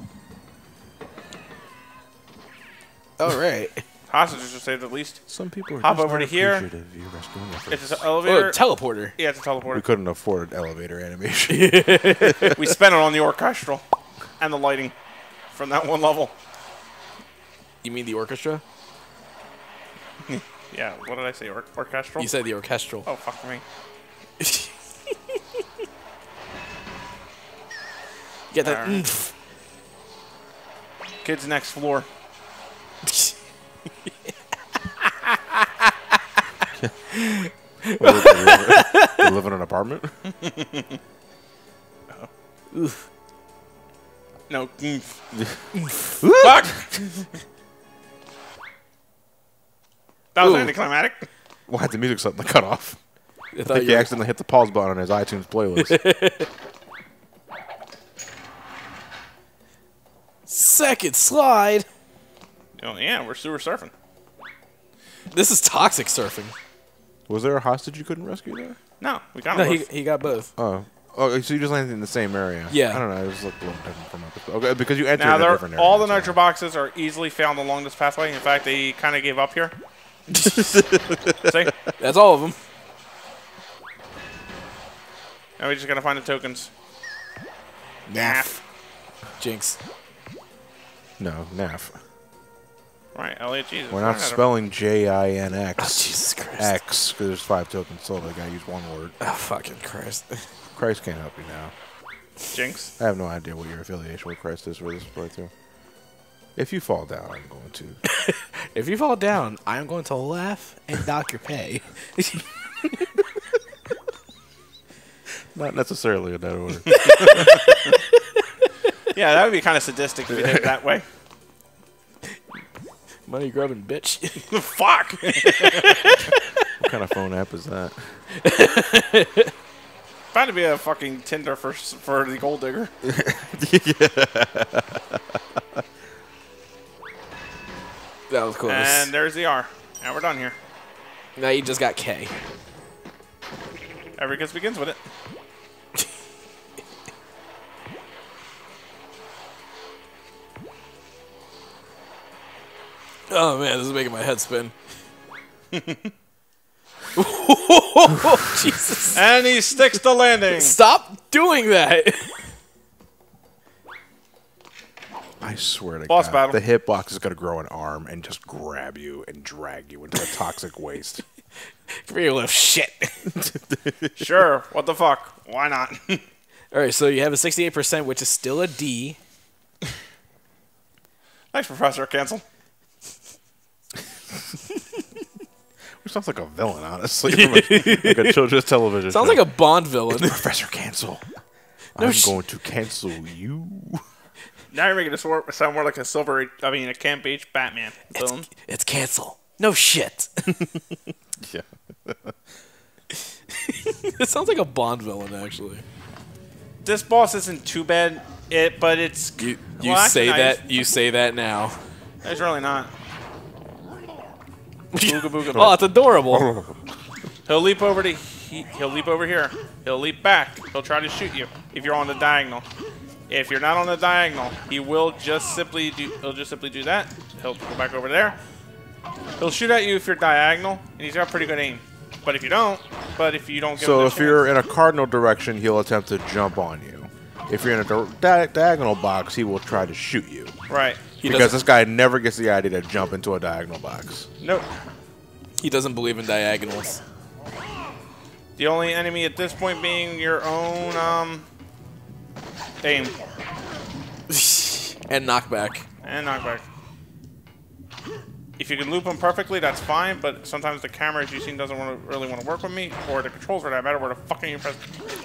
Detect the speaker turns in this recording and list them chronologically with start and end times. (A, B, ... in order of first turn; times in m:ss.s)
0:03.2-0:03.8 A
0:04.1-0:05.2 B
0:05.3-0:08.1 C
0:05.8-0:06.7 B
0:07.7-0:08.6 B
0:08.2-0:09.1 A
0:09.2-0:09.8 B
0:09.7-0:12.6 C
0:11.5-0:12.6 A
0:12.6-0:13.8 B
0:14.4-0:14.9 B
0:15.5-0:16.3 B
0:17.8-0:18.6 A
0:20.3-0:22.3 B
0:22.2-0:23.1 A
0:23.0-0:23.6 B
0:24.4-0:24.7 A
0:28.5-0:29.3 A
0:28.6-0:29.0 B
0:31.2-0:32.1 B
0:33.1-0:33.3 A
0:36.8-0:37.0 C
0:37.2-0:39.3 A
0:37.9-0:40.1 C
0:40.4-0:41.0 B
0:42.7-0:43.0 A
0:44.5-0:45.2 B
0:46.2-0:46.8 C
0:46.4-0:47.4 B
0:50.3-0:51.3 B
0:50.4-0:50.8 A
0:51.7-0:53.0 C
0:53.5-0:54.1 A
0:53.7-0:56.0 C
0:55.8-0:56.5 A
1:00.5-1:01.9 A
1:02.8-1:03.9 B
1:05.3-1:06.5 A
1:07.3-1:08.8 C
1:09.0-1:09.9 B
1:09.5-1:10.5 A
1:10.6-1:16.4 C
1:12.7-1:13.0 A
1:15.1-1:19.7 B
1:20.3-1:20.7 A
1:20.6-1:21.7 C
1:21.4-1:21.7 B
1:22.0-1:22.6 A
1:25.6-1:26.7 B
1:28.1-1:28.6 A
1:28.2-1:28.6 B
1:29.4-1:29.8 A
1:31.2-1:32.0 C
1:33.1-1:34.4 B
1:33.9-1:39.2 C
1:35.8-1:36.8 A
1:39.2-1:40.5 A
1:40.7-1:41.7 C
1:42.5-1:42.9 B
1:43.0-1:45.5 C
1:46.6-1:48.0 C
1:48.1-1:52.9 A
1:55.5-1:57.5 C
1:56.9-1:57.6 A
1:59.1-2:01.0 B
2:03.3-2:04.5 A
2:04.5-2:05.9 B
2:05.2-2:06.4 A
2:06.8-2:08.2 C
2:08.4-2:09.5 A
2:10.3-2:12.9 B
2:13.0-2:15.4 C
2:18.3-2:19.1 A
2:18.6-2:20.6 B
2:21.4-2:22.3 A
2:24.2-2:25.0 B
2:33.3-2:34.7 A
2:35.7-2:36.1 B
2:37.2-2:39.2 A
2:39.1-2:40.8 B
2:40.5-2:42.4 A
2:45.4-2:51.2 C
2:46.1-2:46.6 B
2:51.9-2:53.4 A
2:53.4-2:54.1 C
2:54.2-2:56.2 B
2:56.7-2:59.2 A
3:01.5-3:02.4 B
3:06.0-3:09.5 C
3:07.2-3:08.4 A
3:09.1-3:10.4 A
3:10.1-3:11.2 C
3:12.0-3:14.0 C
3:12.0-3:12.4 A
3:14.7-3:18.5 B
3:18.1-3:20.6 A
3:21.4-3:22.3 C
3:23.7-3:25.8 A
3:26.8-3:30.6 B
3:29.4-3:31.8 A
3:32.2-3:32.9 B
3:34.9-3:36.5 A
3:35.0-3:35.8 B
3:35.5-3:36.8 C
3:37.4-3:42.6 B
3:43.3-3:48.4 B
3:49.4-3:54.5 B
3:53.8-4:00.5 C
4:00.7-4:01.0 B
4:01.2-4:01.6 A
4:01.2-4:04.3 C
4:04.4-4:04.7 B
4:05.6-4:07.0 A
4:08.6-4:11.5 B
4:12.8-4:13.2 B
4:14.3-4:15.8 A
4:16.0-4:16.6 B
4:18.6-4:24.8 B